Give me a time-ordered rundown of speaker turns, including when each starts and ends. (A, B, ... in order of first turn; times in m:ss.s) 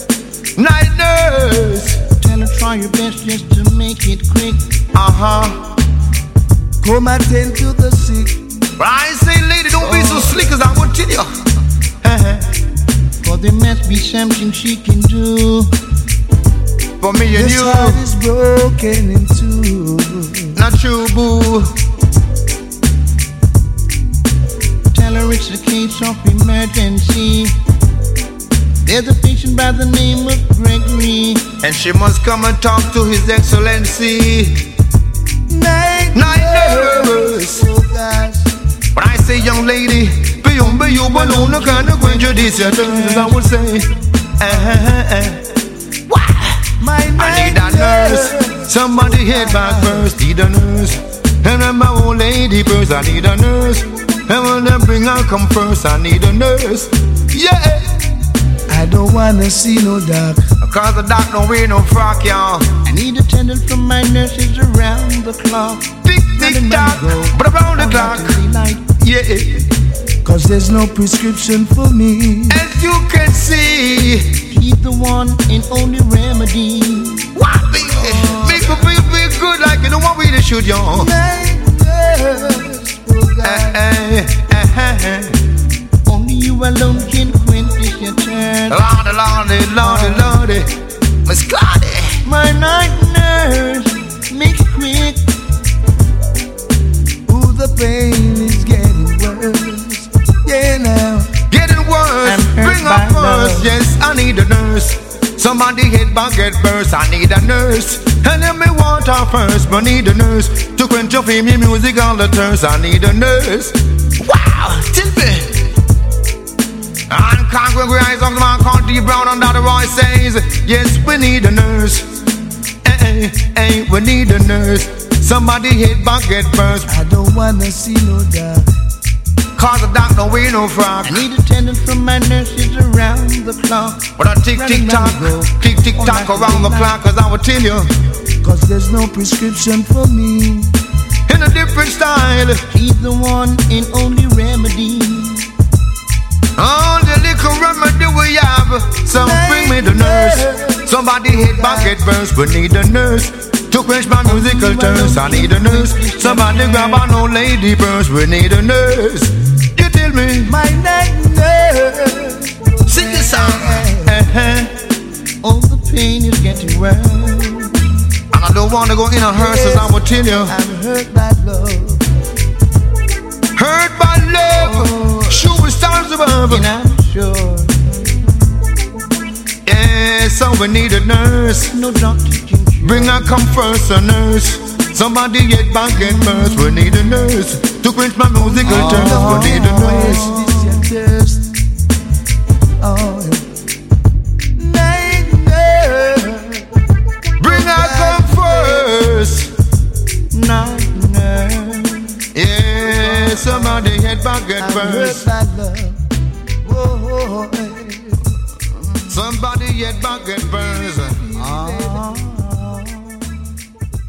0:00.6-0:02.0 A
0:02.2-0:04.6 B
0:04.9-0:05.6 A
0:06.8-0:08.4 C
0:08.8-0:11.3 A
0:09.8-0:10.6 B
0:12.0-0:12.5 A
0:13.2-0:15.7 B
0:17.0-0:18.0 A
0:17.3-0:20.6 C
0:20.6-0:21.7 A
0:24.9-0:27.6 B
0:28.8-0:31.6 B
0:31.6-0:34.6 A
0:35.5-0:38.5 C
0:36.1-0:37.7 A
0:38.9-0:45.4 A
0:40.6-0:43.4 C
0:44.4-0:44.8 C
0:46.1-0:46.6 B
0:46.8-0:50.1 C
0:47.2-0:58.0 A
0:58.7-1:00.5 C
1:00.6-1:02.8 A
1:02.8-1:07.1 B
1:06.0-1:09.7 A
1:06.9-1:07.4 C
1:07.7-1:08.9 B
1:10.2-1:12.6 C
1:12.5-1:14.4 A
1:14.5-1:17.3 B
1:17.4-1:21.1 A
1:18.1-1:18.8 C
1:20.9-1:23.8 C
1:23.4-1:25.4 A
1:26.1-1:28.8 B
1:28.7-1:30.7 A
1:29.8-1:30.3 C
1:31.2-1:32.2 A
1:32.2-1:35.2 B
1:37.3-1:41.3 C
1:41.5-1:55.6 A
1:42.2-1:43.8 B
1:57.1-2:02.1 A
2:02.8-2:06.9 A
2:06.9-2:08.7 C
2:09.5-2:11.2 A
2:11.0-2:15.3 B
2:14.2-2:17.9 A
2:15.1-2:15.5 C
2:15.9-2:17.0 B
2:18.4-2:20.7 C
2:21.3-2:22.6 A
2:22.7-2:25.5 B
2:26.6-2:40.6 A
2:29.2-2:32.0 C
2:34.2-2:37.1 B
2:40.4-2:44.2 C
2:42.8-2:44.7 A
2:45.4-2:47.8 B
2:48.3-2:50.5 A
2:49.3-2:52.1 C
2:53.5-2:56.7 A
2:54.5-2:55.6 B
2:56.5-2:57.8 B
2:59.6-3:01.7 A
3:01.7-3:03.3 B
3:02.8-3:10.3 A
3:08.4-3:11.5 C
3:08.6-3:10.9 B
3:12.8-3:13.5 C
3:14.6-3:16.7 C
3:17.4-3:19.5 A
3:17.4-3:18.9 C
3:20.3-3:22.2 B
3:22.3-3:25.3 A
3:22.8-3:23.9 B
3:24.6-3:26.0 C
3:26.6-3:28.2 C
3:29.1-3:31.2 A
3:30.4-3:32.3 C
3:31.3-3:33.5 B